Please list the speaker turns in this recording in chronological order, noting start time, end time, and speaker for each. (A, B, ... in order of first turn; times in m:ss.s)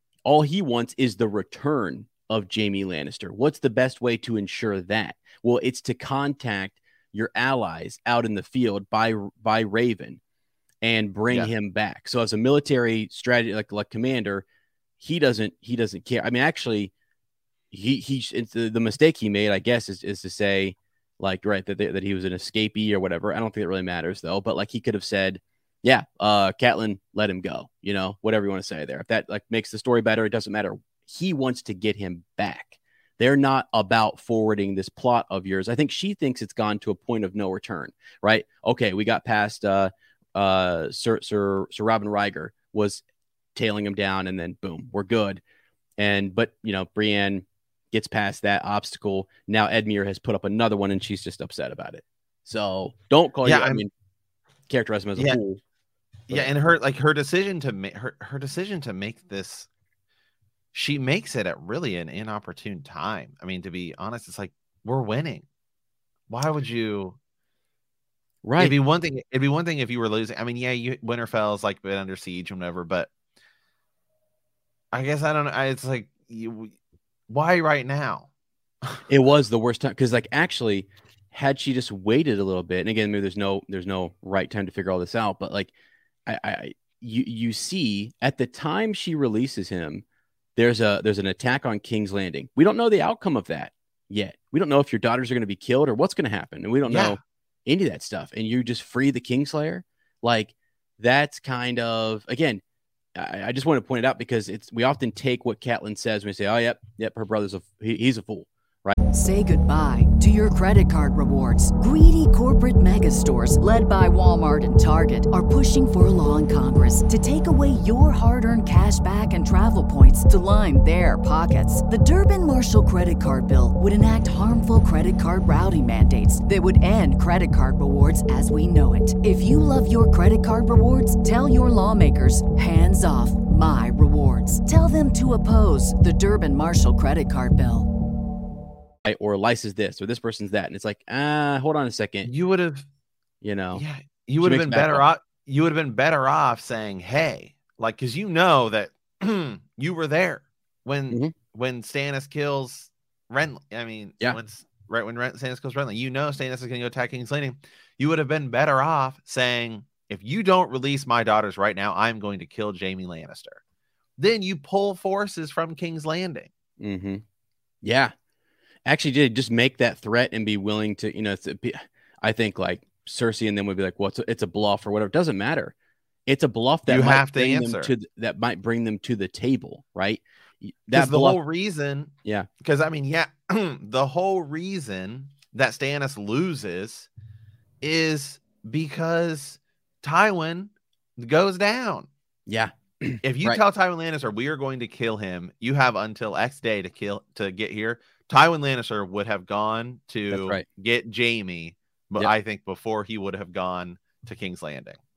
0:00.2-0:10.2 A
0:10.8-0:14.4 A
0:15.0-0:16.9 A
0:17.7-0:43.0 A
0:43.5-0:45.4 A
0:46.0-0:53.9 A
0:53.4-0:53.8 B
0:54.7-0:55.6 A
0:56.3-0:59.7 B
1:00.7-1:05.5 B
1:06.3-1:07.2 B
1:08.4-1:08.8 A
1:08.6-1:13.1 B
1:14.9-1:16.7 B
1:17.3-1:18.3 B
1:19.1-1:25.7 A
1:26.3-1:30.0 A
1:30.6-1:42.6 A
1:36.8-1:37.2 B
1:43.2-1:49.0 A
1:49.1-2:17.9 C
2:19.0-2:22.3 A
2:22.2-2:22.8 B
2:23.4-2:23.8 A
2:23.7-2:43.6 B
2:24.4-2:25.0 A
2:44.2-2:46.5 B
2:46.8-2:47.2 A
2:47.8-2:48.1 A
2:48.9-2:55.7 A
2:56.3-3:01.4 A
2:56.9-2:57.9 B
3:00.9-3:07.1 B
3:07.8-3:12.1 B
3:12.5-3:13.6 A
3:13.2-3:25.0 B
3:20.3-3:20.6 A